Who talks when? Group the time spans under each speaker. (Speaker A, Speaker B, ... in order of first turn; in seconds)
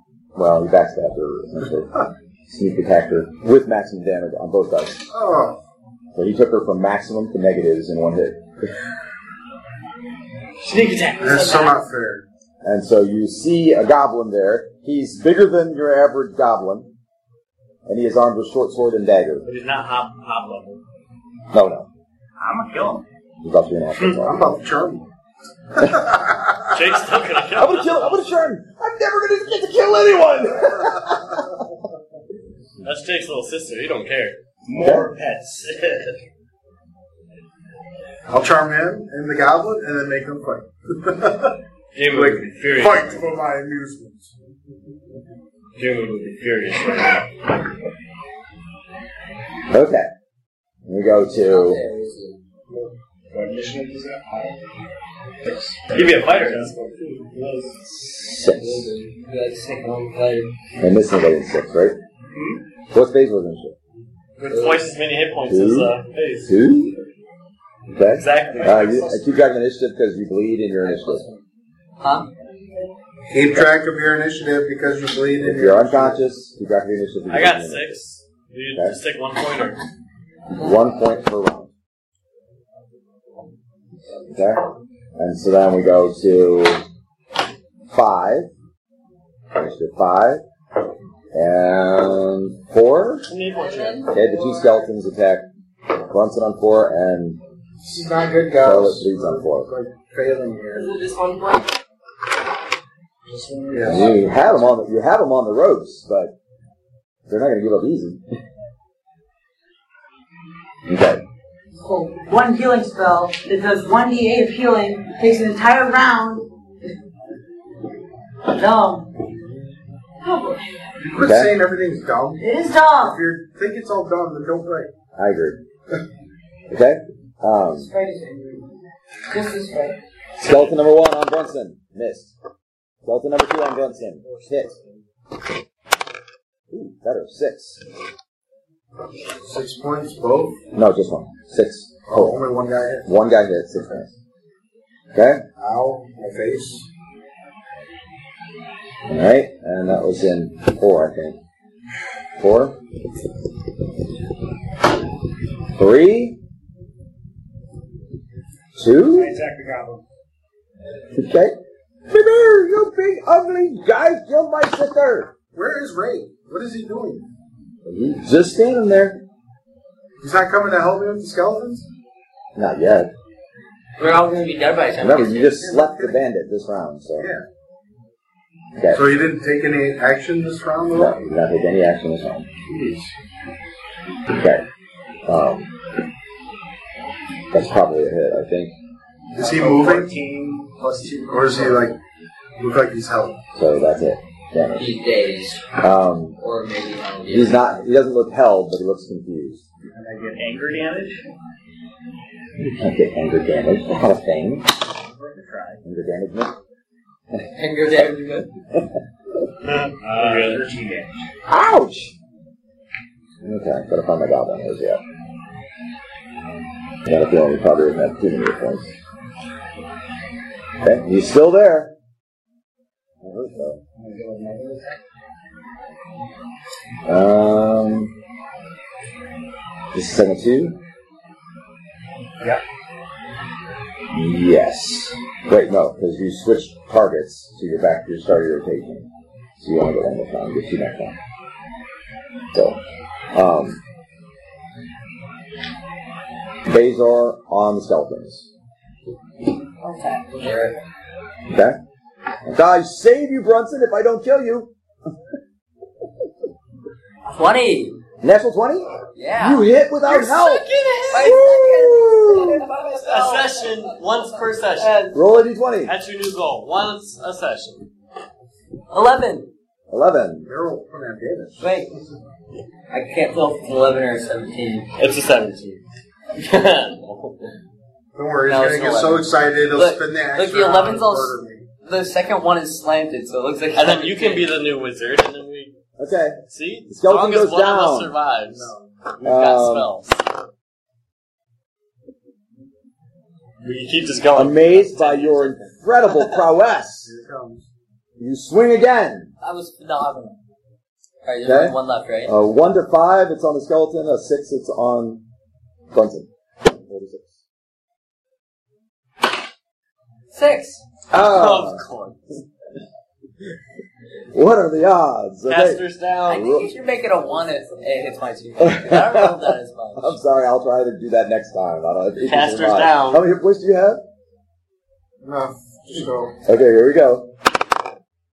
Speaker A: 0.3-5.0, 6.1-8.4, 12.6-16.9, 17.9-19.4, 21.5-21.9, 23.4-24.4, 27.6-31.6, 34.8-35.1, 49.7-50.1, 50.9-51.8, 57.9-58.9, 60.8-62.0, 62.9-63.7, 65.5-65.9, 66.5-66.9, 67.9-71.2, 75.4-78.0, 80.5-81.7, 84.3-86.8, 87.9-88.5, 89.5-90.4, 91.3-93.3, 94.1-95.5, 96.1-97.4, 98.6-99.7, 103.8-106.3, 107.3-108.2, 110.9-111.2, 121.2-121.5, 125.1-125.6, 126.7-127.9, 130.4-132.3, 133.0-134.7, 136.7-137.8, 140.7-142.4, 143.1-144.1, 145.1-145.4, 149.1-151.4, 152.4-152.8, 155.8-156.4, 158.8-159.3, 161.1-161.6, 162.1-165.3, 167.8-169.2, 172.6-173.1, 175.0-177.3, 178.8-179.0, 180.9-182.5, 184.3-184.6, 185.2-185.7, 187.5-188.7, 193.5-194.9, 195.8-196.4, 197.2-199.6, 202.6-204.8, 205.8-206.5, 211.5-212.1, 213.4-215.0, 217.1-218.9, 220.8-221.9, 223.2-223.8, 227.1-228.1, 229.9-230.8, 234.1-241.2, 242.5-242.8, 243.3-243.8, 246.7-248.5, 251.5-251.8, 252.4-254.7, 258.2-262.6, 265.1-265.9, 269.9-270.5, 286.0-288.1, 289.2-289.9, 294.3-297.1, 298.2-299.3, 301.4-305.2, 305.9-307.4, 311.1-311.8, 314.3-316.7, 318.6-324.0, 326.4-327.3
Speaker B: 5.1-5.6, 11.2-12.2, 24.2-25.1, 25.7-26.8, 30.6-31.4, 38.3-44.3, 73.3-76.2, 97.8-100.9, 103.7-104.1, 121.0-122.4, 123.0-124.9, 139.4-140.6, 142.1-143.1, 145.6-146.8, 165.5-167.3, 170.2-171.8, 177.2-177.4, 178.9-181.2, 182.7-183.0, 189.3-190.2, 191.3-192.0, 192.6-193.4, 270.4-271.7, 278.1-281.7, 288.4-288.9, 297.0-297.7, 325.2-326.4
Speaker C: 11.2-11.5, 51.3-52.4, 59.0-60.5, 64.5-64.9, 70.8-71.4, 72.0-72.3, 174.0-176.0, 194.7-195.6, 196.4-197.6, 207.5-208.5, 249.8-250.7, 257.2-258.0, 259.1-259.7, 261.1-263.9, 264.7-265.2, 268.9-269.5, 271.6-271.9, 272.9-274.9, 278.4-284.5, 289.2-290.1, 299.4-300.4, 301.2-302.4, 310.3-310.8, 316.3-320.2
Speaker D: 19.4-20.8, 22.4-23.0, 26.7-28.3, 32.8-34.4, 35.6-36.1, 41.9-43.4, 45.8-47.3, 55.9-56.7, 64.4-66.5, 68.1-69.5, 77.3-79.8, 93.2-94.2, 130.4-130.7, 134.3-135.0, 209.6-210.7, 260.0-261.4, 262.9-265.1, 265.9-267.9, 275.0-275.8, 276.3-277.5, 283.7-285.7, 286.5-288.7, 289.2-289.7, 293.6-296.5, 311.1-312.2, 315.5-316.5, 322.2-323.2
Speaker E: 34.6-35.8, 53.3-54.6, 55.4-57.8, 58.5-59.0, 62.3-62.6, 103.2-104.2, 159.1-160.0, 189.3-191.9, 199.9-201.2, 205.1-205.8, 210.0-211.2, 223.9-224.9
Speaker F: 93.5-94.8, 100.7-101.7
Speaker G: 111.8-116.5, 118.5-119.1, 120.2-120.7, 122.4-123.2, 127.8-128.7, 129.3-130.0